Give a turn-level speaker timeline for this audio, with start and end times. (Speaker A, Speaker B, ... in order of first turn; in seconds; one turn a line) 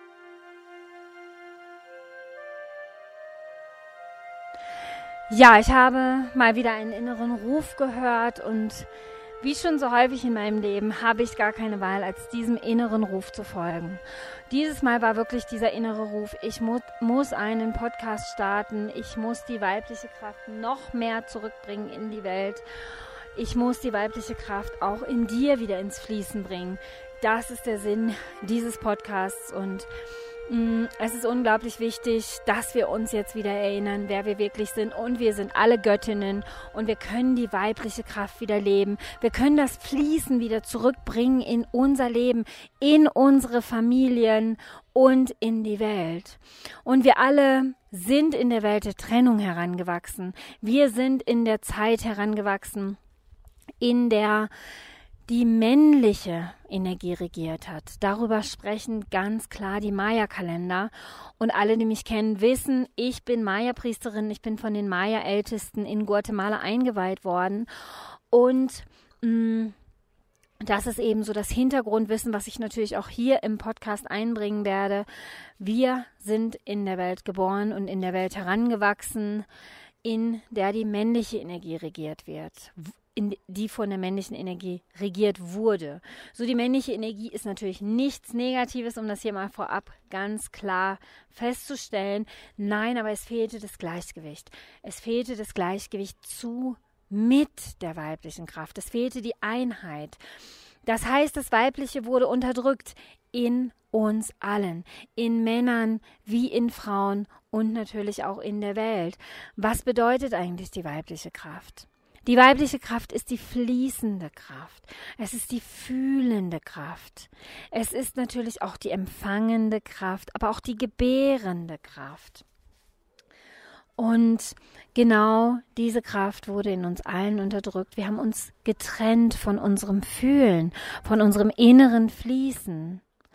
Speaker A: 5.3-8.9
Speaker A: 9.4-22.6
Speaker A: 23.3-29.9
Speaker A: 30.5-53.0
Speaker A: 53.8-54.5
Speaker A: 55.3-69.8
Speaker A: 70.6-79.5
Speaker A: 80.0-100.2
Speaker A: 100.8-122.4
Speaker A: 124.0-133.0